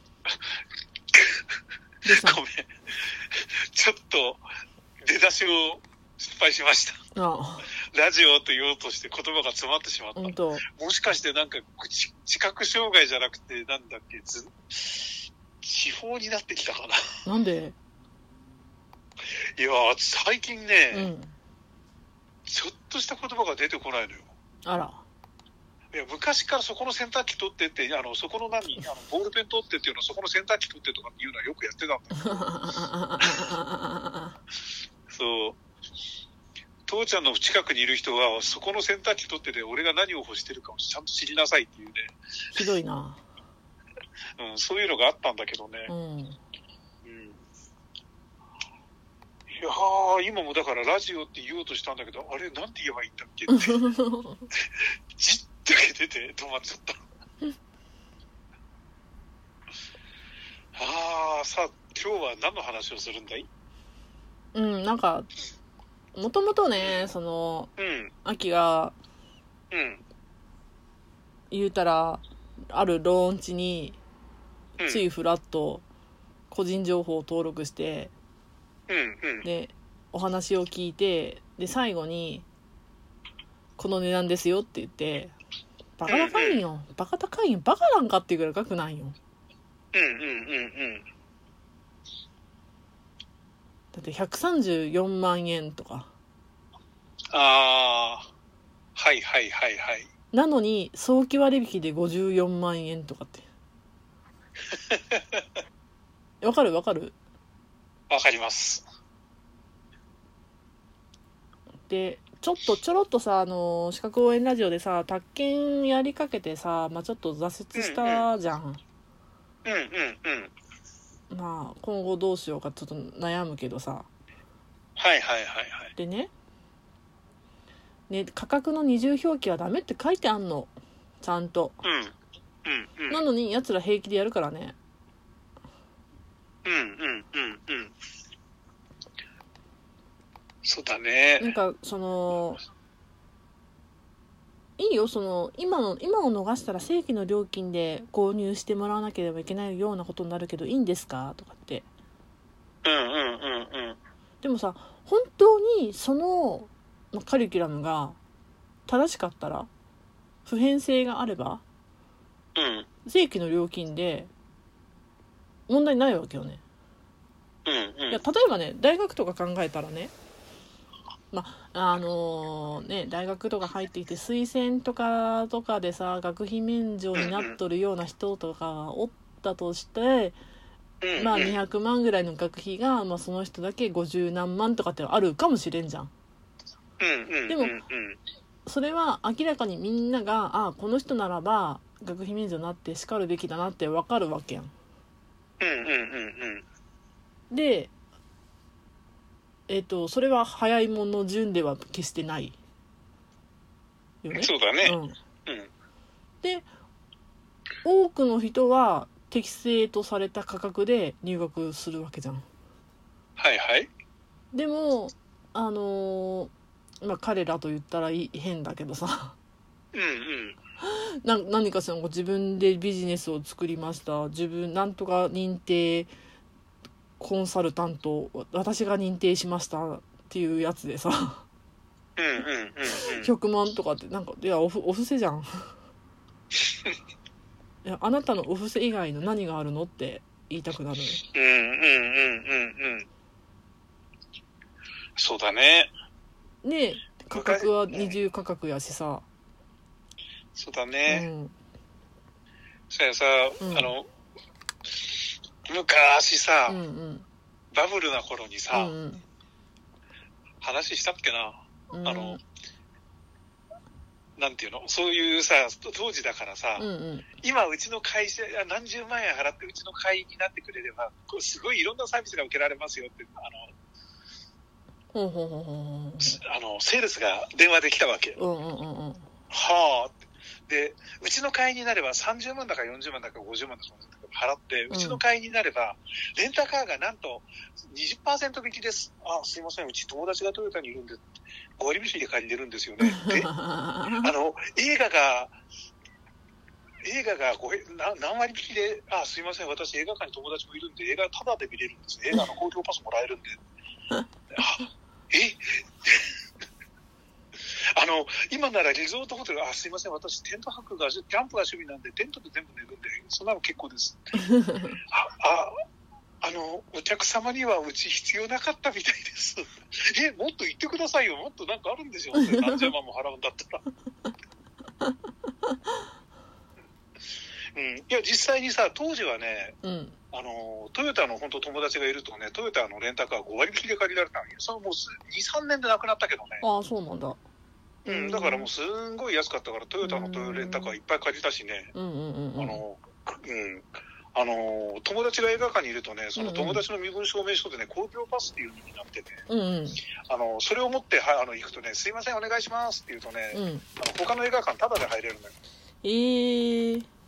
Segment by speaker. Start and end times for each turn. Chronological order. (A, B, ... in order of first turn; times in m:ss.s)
0:02.0-0:02.4 A
0:02.1-0:02.7 B
0:03.3-0:04.4 B
0:05.0-0:07.0 B
0:07.2-0:07.7 A
0:07.9-0:17.0 B
0:10.2-0:10.6 A
0:17.3-0:17.8 A
0:19.6-0:21.1 B
0:20.9-0:21.4 A
0:22.5-0:24.3 B
0:24.6-0:25.0 A
0:25.9-0:32.6 B
0:32.2-0:34.4 A
0:35.1-0:35.6 B
0:36.9-0:42.2 B
0:42.5-0:43.2 A
0:44.4-0:45.9 B
0:45.9-0:46.4 A
0:47.0-0:47.4 B
0:49.6-0:53.9 B
0:53.5-0:54.5 A
0:54.5-0:57.0 B
1:00.8-1:03.5 B
1:04.5-1:05.3 A
1:06.2-1:07.7 A
1:06.8-1:07.1 B
1:07.8-1:08.1 B
1:08.2-1:09.0 A
1:09.7-1:10.0 B
1:11.5-1:14.0 A
1:14.8-1:15.0 B
1:14.8-1:15.8 A
1:16.5-1:18.1 A
1:18.9-1:19.5 B
1:19.4-1:22.4 A
1:23.8-1:25.3 A
1:26.0-1:29.2 A
1:26.1-1:26.6 B
1:29.9-1:31.1 B
1:33.9-1:36.1 A
1:37.3-1:38.3 B
1:39.0-1:40.1 B
1:40.3-1:43.5 A
1:44.7-1:45.4 B
1:46.4-1:47.2 A
1:48.1-1:48.8 B
1:51.9-1:58.8 A
1:57.7-1:58.3 B
1:59.6-2:00.5 B
2:01.3-2:04.1 A
2:05.0-2:05.9 B
2:06.0-2:06.3 A
2:08.1-2:11.8 A
2:11.8-2:12.1 B
2:12.6-2:13.2 B
2:13.1-2:14.8 A
2:16.6-2:17.9 B
2:20.6-2:21.6 B
2:21.4-2:22.6 A
2:24.8-2:31.9 A
2:32.8-2:34.0 B
2:34.4-2:38.2 A
2:38.9-2:39.7 A
2:40.4-2:41.6 A
2:42.6-2:42.9 B
2:43.1-2:44.3 A
2:45.7-2:46.6 A
2:47.6-2:48.2 B
2:48.1-2:50.1 A
2:51.3-3:00.4 A
2:57.2-2:57.6 B
3:01.0-3:01.6 B
3:01.2-3:06.1 A
3:07.0-3:08.2 B
3:07.5-3:07.8 A
3:08.7-3:14.7 A
3:15.6-3:16.6 B
3:17.5-3:17.9 A
3:19.7-3:22.6 A
3:24.2-3:25.2 A
3:24.4-3:25.7 B
3:27.8-3:32.5 A
3:33.4-3:33.9 B
3:34.5-3:36.5 A
3:37.0-3:39.4 A
3:39.9-3:40.6 B
3:40.8-3:46.1 A
3:47.2-3:51.4 A
3:52.2-3:53.3 B
3:53.0-3:55.7 A
3:57.8-4:01.2 A
4:01.3-4:03.1 B
4:05.2-4:05.9 B
4:06.6-4:09.2 A
4:07.3-4:08.2 B
4:10.6-4:11.3 B
4:11.1-4:11.6 A
4:12.9-4:14.1 B
4:13.6-4:13.9 A
4:15.7-4:16.8 B
4:16.7-4:17.3 A
4:17.7-4:19.0 B
4:18.7-4:19.2 A
4:20.6-4:22.4 B
4:21.9-4:22.4 A
4:24.4-4:26.9 B
4:26.8-4:27.3 A
4:27.4-4:33.7 B
4:35.1-4:36.4 A
4:36.2-4:38.4 B
4:38.4-4:39.3 A
4:39.5-4:51.2 B
4:44.9-4:45.2 A
4:51.8-4:53.5 B
4:53.0-4:54.3 A
4:54.2-4:55.6 B
4:57.0-5:03.6 B
5:04.6-5:06.3 B
5:08.0-5:14.3 B
5:14.5-5:15.0 A
5:15.1-5:15.7 B
5:16.4-5:23.8 B
5:22.4-5:22.8 A
5:27.7-5:29.8 B
5:29.8-5:30.2 A
5:30.3-5:36.6 B
5:36.6-5:37.4 A
5:38.0-5:41.9 B
5:38.1-5:38.7 A
5:40.0-5:41.0 A
5:41.9-5:42.8 A
5:42.6-5:49.4 B
5:46.4-5:46.8 A
5:49.5-5:50.0 A
5:50.2-5:55.5 B
5:53.5-5:53.9 A
5:56.0-5:57.1 A